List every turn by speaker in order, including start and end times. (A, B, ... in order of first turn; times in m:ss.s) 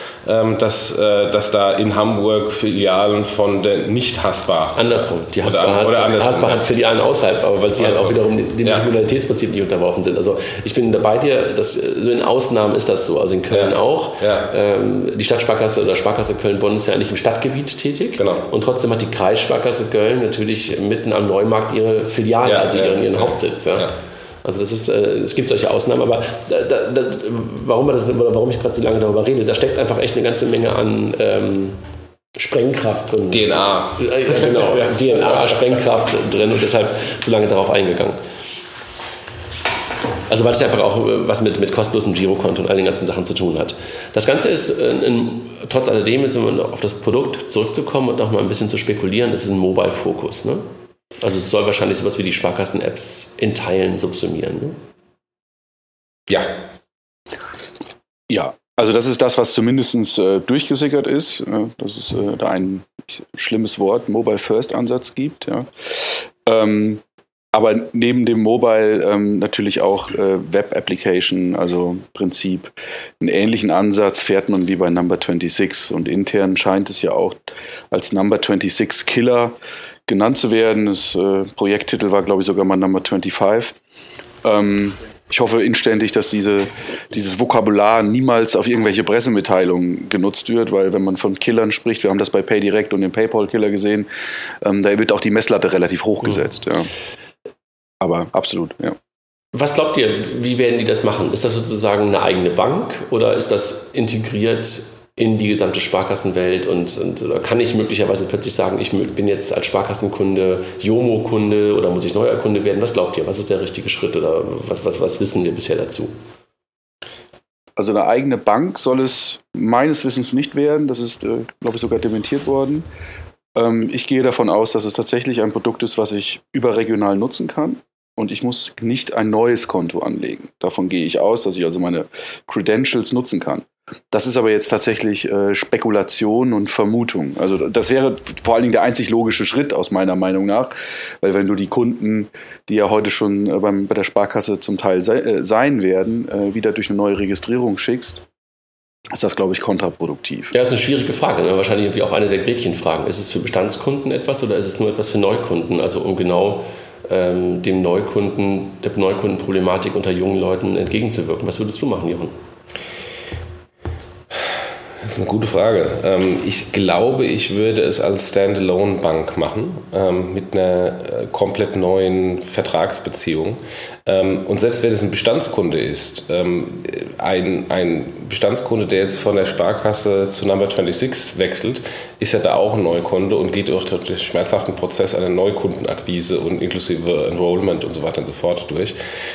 0:00.2-0:06.6 A
0:04.8-0:23.9 B
0:07.8-0:08.9 A
0:13.5-0:14.5 A
0:18.2-0:18.4 A
0:22.4-0:23.9 A
0:24.4-0:31.8 B
0:32.4-0:38.2 B
0:33.3-0:35.3 A
0:40.3-0:50.6 B
0:51.2-0:54.8 B
0:58.3-1:23.8 C
1:24.4-1:34.1 C
1:34.6-1:36.9 C
1:38.0-1:39.0 C
1:39.5-1:56.2 B
1:57.8-2:02.9 C
2:03.5-2:28.2 C
2:29.1-2:30.5 C
2:30.5-2:42.4 B
2:45.0-3:09.0 A